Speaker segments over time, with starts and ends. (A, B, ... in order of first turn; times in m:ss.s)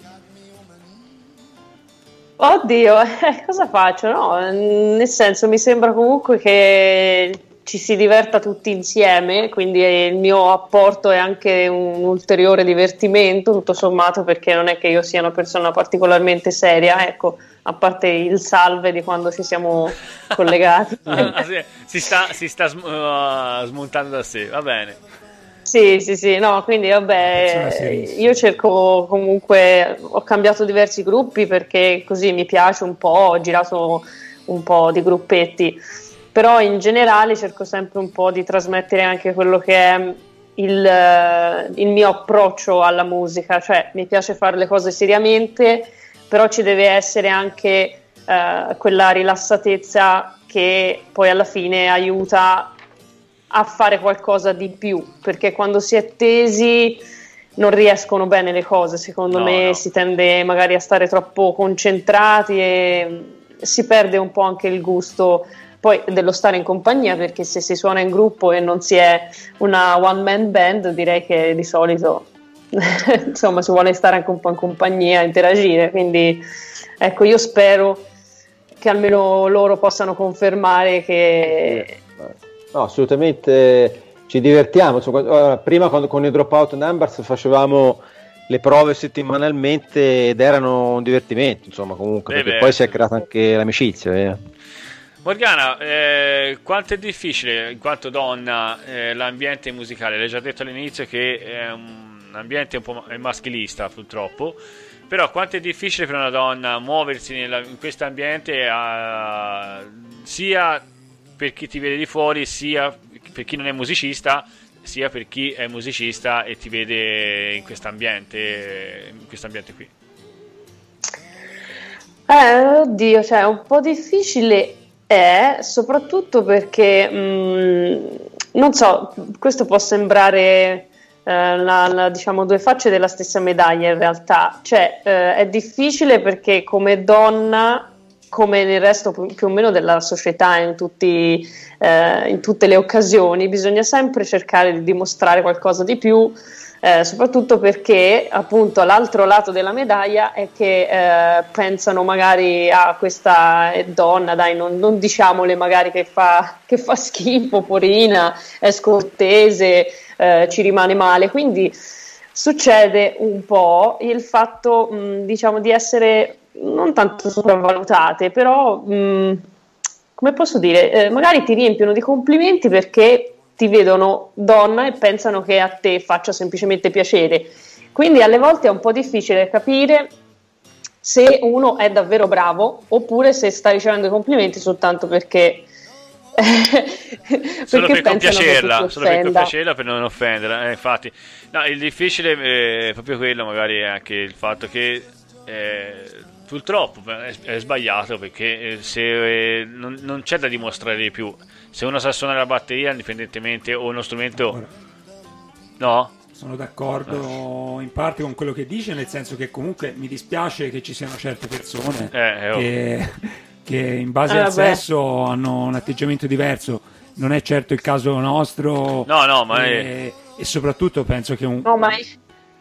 0:02.4-0:21.4 A
0:21.1-0:25.0 B
0:25.7-0:35.8 A
0:27.3-0:28.4 C
0:36.3-0:52.7 A
0:53.5-0:57.0 A
0:57.6-1:16.4 A
0:59.3-0:59.8 B
1:17.0-1:18.0 A
1:18.8-1:22.0 A
1:21.6-1:34.4 D
1:32.3-1:33.0 B
1:35.2-1:44.6 B
1:45.1-1:50.8 B
1:51.4-1:59.9 B
2:02.3-2:41.8 A
2:42.4-2:49.4 A
2:50.2-3:00.1 A
3:01.0-3:05.7 A
3:06.4-3:09.5 A
3:07.7-3:24.6 B
3:24.4-3:24.7 C
3:25.8-3:26.1 B
3:26.3-3:41.9 C
3:32.1-3:32.7 B
3:34.3-3:34.8 A
3:39.1-3:39.9 B
3:41.6-3:42.1 A